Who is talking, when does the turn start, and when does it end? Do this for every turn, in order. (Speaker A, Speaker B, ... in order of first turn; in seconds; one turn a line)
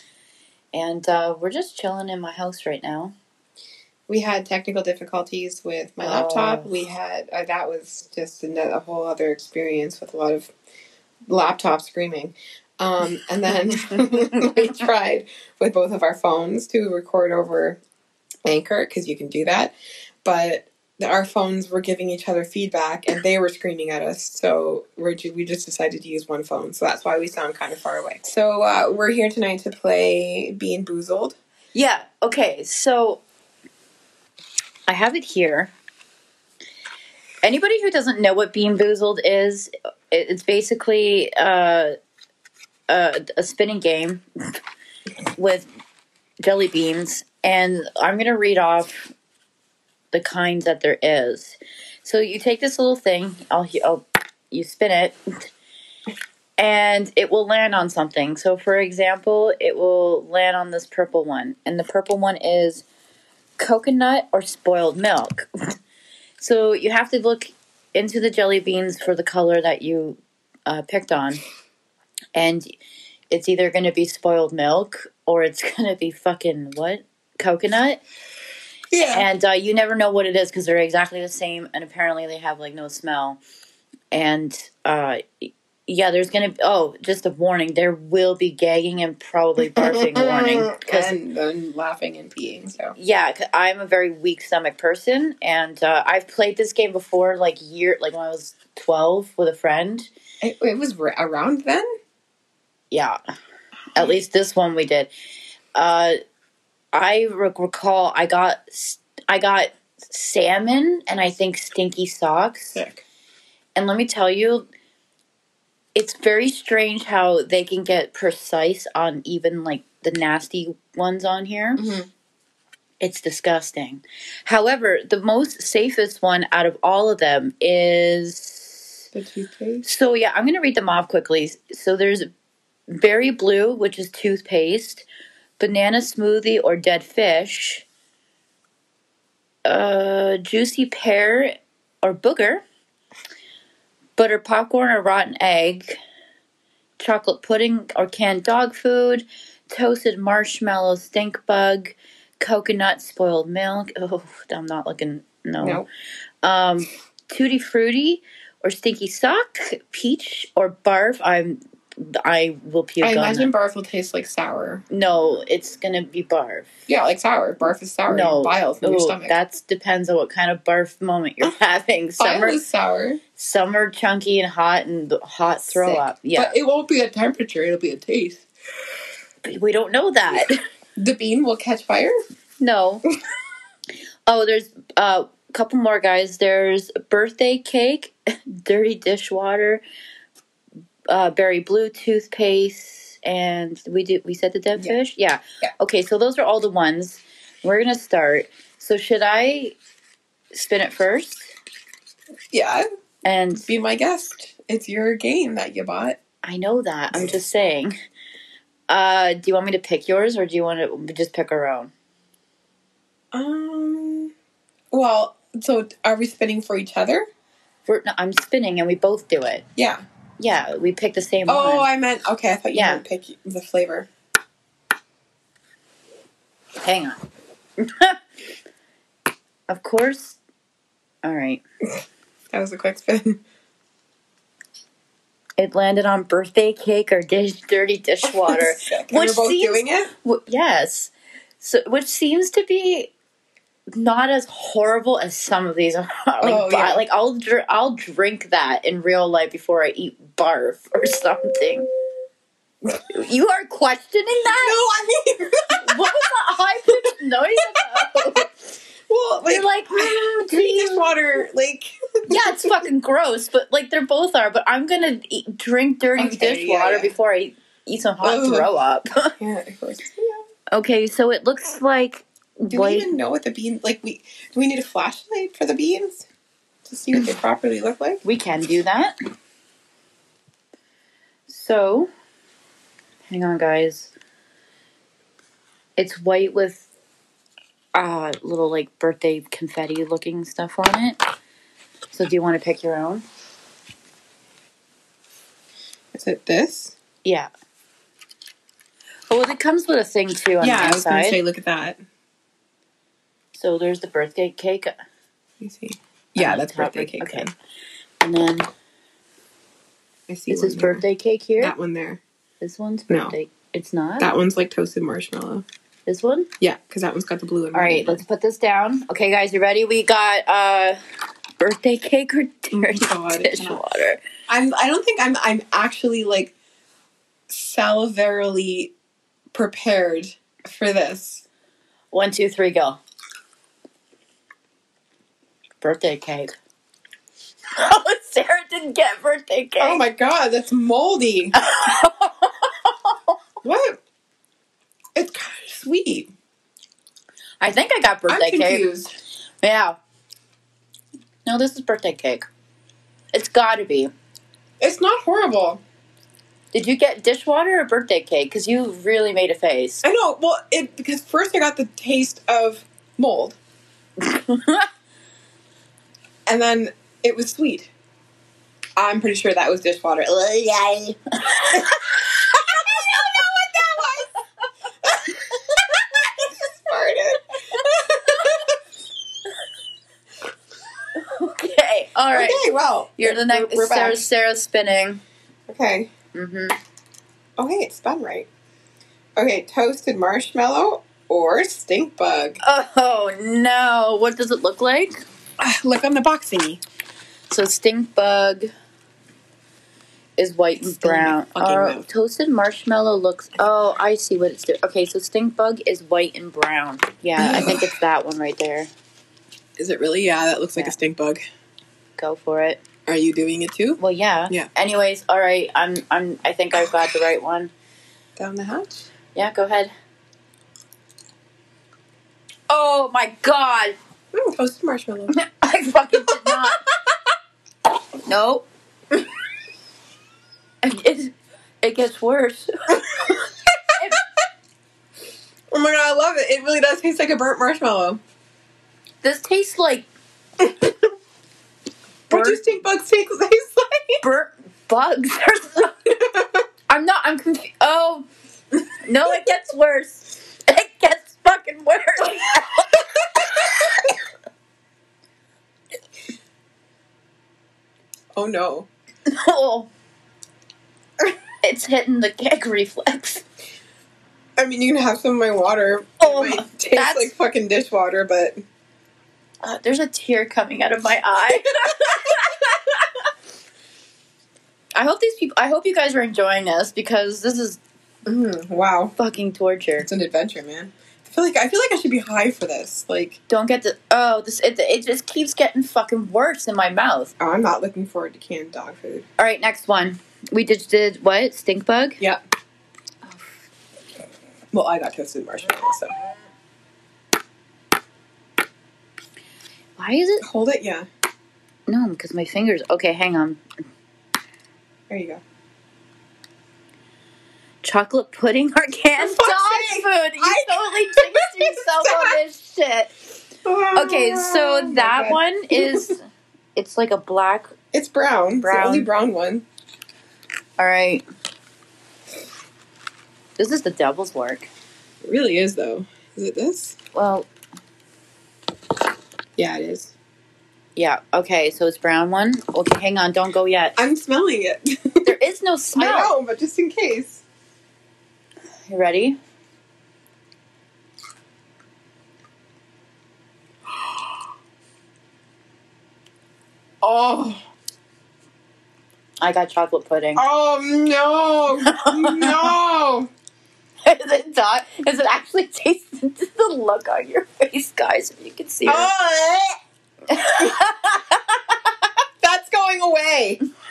Speaker A: 0.7-3.1
Speaker B: 4.1-10.5
Speaker A: 6.0-6.7
Speaker B: 11.3-17.8
Speaker B: 18.4-31.4
Speaker A: 31.7-33.2
Speaker A: 34.9-35.7
Speaker A: 37.4-41.9
Speaker A: 42.9-44.2
Speaker A: 45.4-45.7
Speaker A: 46.4-49.1
Speaker A: 50.1-55.2
Speaker A: 56.6-62.8
Speaker A: 63.6-65.5
Speaker A: 66.4-71.4
Speaker A: 72.3-72.7
Speaker A: 73.3-78.0
Speaker B: 78.9-79.3
Speaker A: 79.0-83.4
Speaker A: 84.1-91.1
Speaker B: 89.7-92.9
Speaker A: 93.0-100.1
Speaker B: 100.4-101.9
Speaker A: 102.9-103.2
Speaker A: 103.9-105.1
Speaker A: 105.8-106.2
Speaker A: 106.9-112.8
Speaker B: 112.7-113.0
Speaker A: 113.8-114.6
Speaker A: 115.9-121.9
Speaker B: 121.8-122.1
Speaker A: 123.0-129.0
Speaker B: 129.1-129.8
Speaker A: 129.8-132.3
Speaker A: 133.0-135.1
Speaker A: 135.6-137.8
Speaker A: 139.7-142.6
Speaker A: 144.2-146.0
Speaker A: 147.0-155.8
Speaker B: 155.6-155.9
Speaker A: 156.4-163.5
Speaker B: 163.0-164.8
Speaker A: 164.9-166.7
Speaker B: 166.9-169.4
Speaker A: 168.1-172.6
Speaker B: 172.2-173.2
Speaker A: 173.4-176.5
Speaker B: 175.7-178.4
Speaker A: 179.4-180.6
Speaker B: 181.0-182.2
Speaker A: 182.6-183.0
Speaker A: 184.3-189.8
Speaker A: 191.1-199.8
Speaker B: 194.8-195.0
Speaker A: 200.5-201.5
Speaker B: 202.5-202.9
Speaker A: 203.2-203.7
Speaker B: 203.6-206.2
Speaker A: 206.4-207.9
Speaker A: 208.9-211.9
Speaker B: 213.3-214.3
Speaker B: 214.9-217.2
Speaker A: 217.8-219.6
Speaker B: 219.8-220.0
Speaker A: 220.4-221.9
Speaker B: 221.5-224.1
Speaker A: 222.7-223.0
Speaker A: 226.8-227.2
Speaker A: 227.8-228.2
Speaker A: 229.7-230.4
Speaker A: 231.2-231.6
Speaker B: 232.5-233.4
Speaker A: 235.6-243.1
Speaker B: 238.2-240.1
Speaker A: 243.9-251.9
Speaker B: 246.4-247.0
Speaker A: 252.8-254.8
Speaker B: 254.4-256.0
Speaker A: 255.7-258.5
Speaker B: 257.8-258.2
Speaker B: 259.1-262.8
Speaker A: 259.5-261.4
Speaker A: 262.3-269.3
Speaker B: 266.1-267.1
Speaker B: 268.2-268.7
Speaker B: 269.4-270.5
Speaker A: 270.7-273.1
Speaker B: 272.7-276.2
Speaker B: 276.8-278.2
Speaker A: 278.2-279.1
Speaker A: 281.5-282.1
Speaker A: 283.3-284.1
Speaker A: 286.0-286.9
Speaker A: 287.9-291.2
Speaker A: 292.1-293.2
Speaker B: 296.1-297.0
Speaker A: 297.2-297.5
Speaker A: 299.3-301.4
Speaker B: 300.6-302.0
Speaker A: 303.5-304.9
Speaker B: 305.6-307.5
Speaker A: 306.4-307.5
Speaker A: 308.2-308.7
Speaker B: 310.3-311.0
Speaker A: 310.5-311.7
Speaker B: 311.6-312.2
Speaker A: 312.6-314.3
Speaker B: 313.1-313.4
Speaker B: 314.2-315.6
Speaker A: 316.1-316.5
Speaker B: 316.6-318.2
Speaker A: 317.7-321.0
Speaker A: 321.6-324.2
Speaker B: 323.0-323.8
Speaker B: 324.5-326.5
Speaker B: 327.5-328.9
Speaker B: 329.5-331.4
Speaker A: 332.1-333.0
Speaker A: 335.8-336.5
Speaker A: 337.7-340.0
Speaker B: 339.8-341.6
Speaker A: 341.5-343.3
Speaker B: 343.6-344.0
Speaker B: 345.1-346.3
Speaker A: 347.6-348.9
Speaker B: 348.3-349.1
Speaker A: 349.6-350.0
Speaker A: 351.4-352.4
Speaker A: 353.3-354.1
Speaker B: 354.8-355.8
Speaker A: 356.7-360.0
Speaker B: 360.0-363.6
Speaker A: 364.2-364.9
Speaker B: 366.5-367.9
Speaker B: 369.0-371.2
Speaker A: 371.4-373.4
Speaker B: 371.7-372.0
Speaker B: 372.7-374.3
Speaker B: 375.0-378.8
Speaker A: 381.1-385.2
Speaker B: 382.3-384.3
Speaker B: 385.7-386.1
Speaker A: 386.3-386.8
Speaker B: 387.6-388.5
Speaker B: 389.4-392.6
Speaker A: 392.6-395.2
Speaker B: 395.6-396.8
Speaker A: 397.5-398.7
Speaker A: 400.4-408.9
Speaker B: 400.8-402.0
Speaker B: 407.4-407.9
Speaker B: 409.8-411.4
Speaker A: 412.2-412.8
Speaker B: 413.1-414.7
Speaker A: 414.0-417.7
Speaker B: 418.4-419.1
Speaker A: 419.3-419.9
Speaker A: 422.7-423.9
Speaker B: 424.3-425.3
Speaker A: 425.3-426.8
Speaker A: 428.2-428.7
Speaker A: 430.8-434.2
Speaker B: 435.7-438.2
Speaker A: 439.2-440.1
Speaker B: 442.3-444.2
Speaker A: 442.3-442.6
Speaker A: 444.2-446.0
Speaker B: 446.2-446.6
Speaker A: 446.9-453.9
Speaker B: 458.3-458.9
Speaker A: 459.3-459.9
Speaker A: 461.6-463.4
Speaker B: 464.6-468.6
Speaker A: 466.2-467.3
Speaker A: 469.6-473.0
Speaker A: 474.9-477.8
Speaker B: 478.2-479.1
Speaker A: 479.2-480.1
Speaker B: 480.0-483.4
Speaker A: 483.5-487.3
Speaker B: 487.4-489.2
Speaker A: 489.4-492.2
Speaker A: 493.2-493.6
Speaker B: 494.7-496.1
Speaker A: 500.0-500.4
Speaker B: 500.4-501.1
Speaker A: 501.9-503.6
Speaker B: 505.1-505.4
Speaker A: 507.8-513.1
Speaker B: 509.2-512.4
Speaker B: 513.6-516.1
Speaker A: 513.9-516.2
Speaker A: 516.8-517.7
Speaker B: 517.9-519.6
Speaker A: 518.6-519.1
Speaker A: 520.8-521.2
Speaker A: 523.6-524.7
Speaker B: 525.2-527.0
Speaker A: 527.1-527.5
Speaker B: 529.6-530.1
Speaker A: 531.0-533.9
Speaker B: 534.0-535.3
Speaker A: 535.2-536.3
Speaker B: 536.0-537.4
Speaker A: 538.9-539.4
Speaker B: 547.0-547.6
Speaker A: 549.4-550.4
Speaker B: 550.3-553.3
Speaker A: 551.8-552.6
Speaker A: 554.0-559.1
Speaker B: 558.9-559.8
Speaker A: 560.3-561.8
Speaker B: 562.4-563.6